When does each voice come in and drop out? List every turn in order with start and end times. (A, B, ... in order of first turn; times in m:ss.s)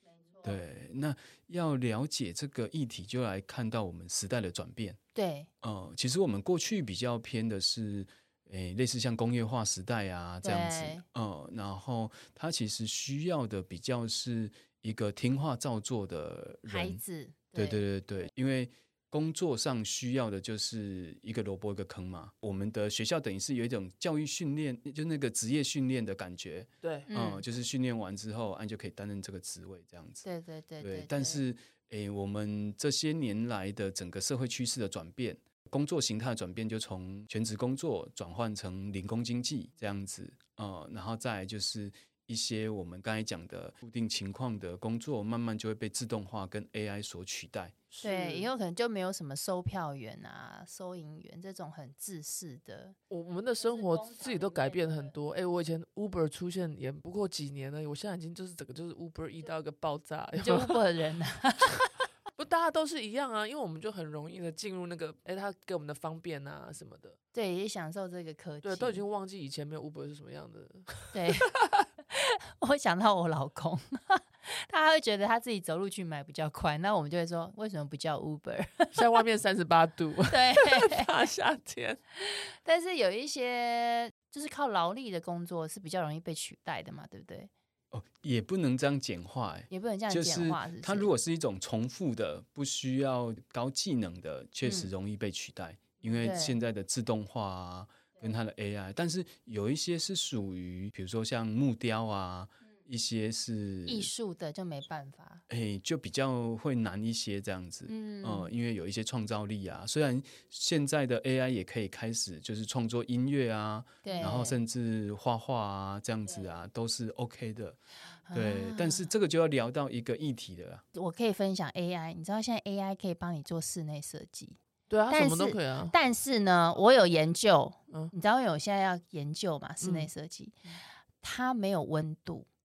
0:00.4-0:05.0 A
0:05.2-0:05.5 B
0:05.6-0:17.0 A
0:10.4-0:11.0 B
0:16.7-0:17.8 B
0:17.5-0:30.2 A
0:26.8-0:27.1 C
0:27.1-0:27.4 B
0:30.2-0:31.4 B
0:30.8-0:47.7 A
0:47.9-0:48.5 C
0:48.0-0:53.0 B
0:53.1-1:00.8 C
0:53.6-0:55.2 B
1:00.4-1:01.8 B
1:02.4-1:07.2 C
1:07.3-1:09.0 B
1:08.6-1:11.8 C
1:11.1-1:11.5 B
1:12.1-1:19.0 B
1:18.9-1:22.0 C
1:20.3-1:21.1 B
1:22.2-1:27.5 B
1:27.9-1:44.1 A
1:29.7-1:31.1 B
1:34.6-1:34.9 B
1:36.2-1:36.6 B
1:43.8-1:45.4 B
1:45.5-1:57.8 A
1:47.8-1:48.5 B
1:54.0-1:54.6 B
1:58.3-1:59.1 B
1:58.3-2:00.8 A
2:00.9-2:04.6 B
2:04.9-2:06.0 C
2:05.1-2:10.6 B
2:09.8-2:10.1 C
2:11.2-2:12.5 B